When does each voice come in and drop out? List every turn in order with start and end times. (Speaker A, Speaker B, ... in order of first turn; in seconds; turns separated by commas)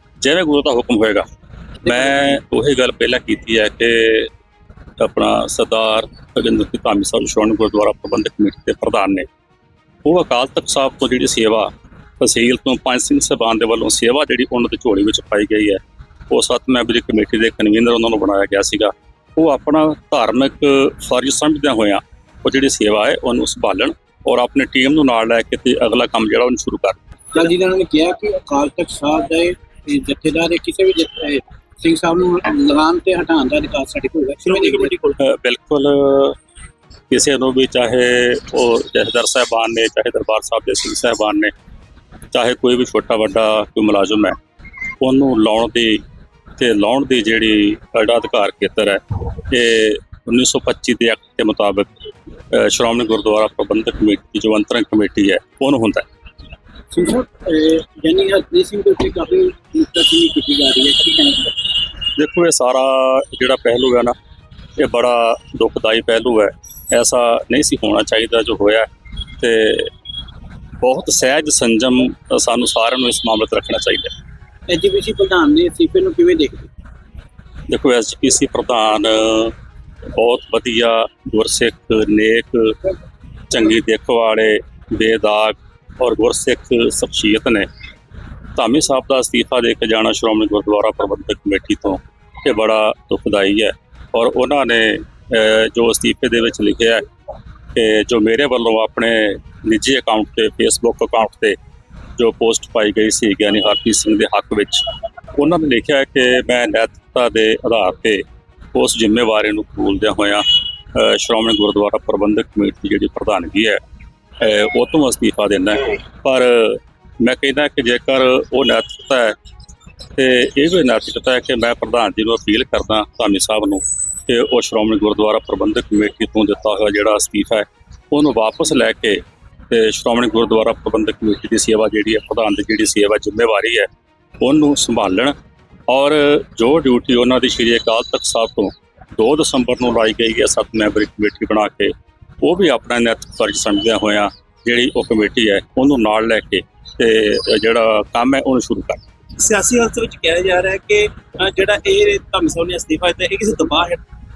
Speaker A: 0.2-1.2, Speaker A: 1.8-4.3, Speaker A: 5.0-9.2, Speaker A: 10.0-27.0, Speaker B: 27.3-35.0, Speaker C: 34.5-35.1, Speaker A: 35.2-36.4, Speaker A: 37.1-41.5, Speaker A: 42.3-44.3, Speaker A: 45.0-46.0, Speaker A: 46.6-51.9, Speaker A: 52.5-56.0, Speaker B: 56.9-61.5, Speaker A: 62.1-64.1, Speaker A: 64.8-68.9, Speaker A: 69.4-69.9, Speaker A: 70.8-74.1, Speaker B: 74.7-76.7, Speaker A: 77.7-79.5, Speaker A: 80.2-82.8, Speaker A: 83.5-87.7, Speaker A: 88.5-97.0, Speaker A: 97.7-101.6, Speaker A: 102.2-104.8, Speaker A: 105.4-108.2, Speaker A: 108.7-113.8, Speaker A: 114.4-119.3, Speaker A: 120.2-133.9, Speaker A: 134.4-135.3, Speaker A: 135.9-149.0, Speaker C: 149.4-154.0